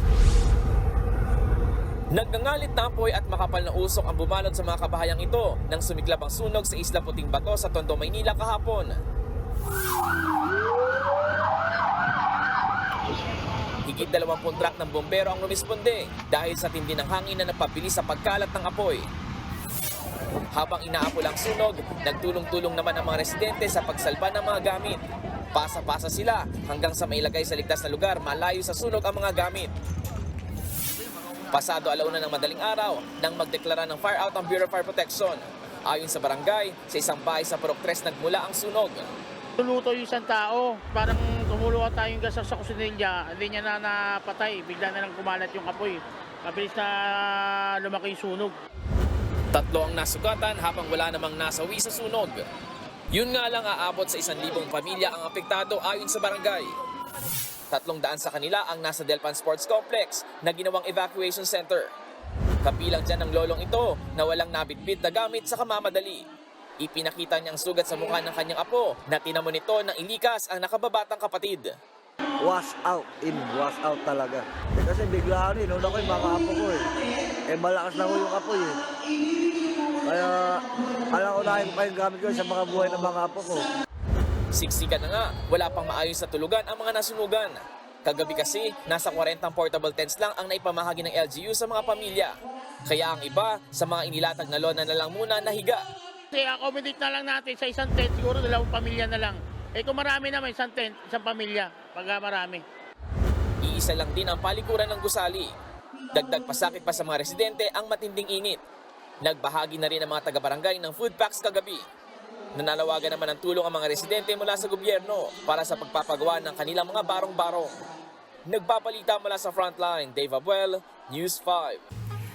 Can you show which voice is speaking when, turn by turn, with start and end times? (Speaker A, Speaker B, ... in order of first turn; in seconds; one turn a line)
Speaker A: 2.1-8.9
Speaker A: 13.8-19.1
Speaker A: 20.5-25.0
Speaker A: 25.5-29.7
Speaker A: 31.5-39.0
Speaker B: 39.6-48.5
Speaker A: 49.5-52.4
Speaker A: 53.1-56.7
Speaker A: 57.7-61.9
Speaker A: 62.6-66.3
Speaker A: 66.8-71.8
Speaker C: 72.4-76.8
Speaker C: 77.5-78.8
Speaker C: 80.0-83.7
Speaker A: 84.5-95.8
Speaker B: 98.0-98.6
Speaker B: 99.3-99.8
Speaker B: 100.8-101.1
Speaker A: 103.6-105.5
Speaker A: 106.1-108.6
Speaker A: 109.2-111.8
Speaker A: 112.5-117.8
Speaker A: 118.5-121.8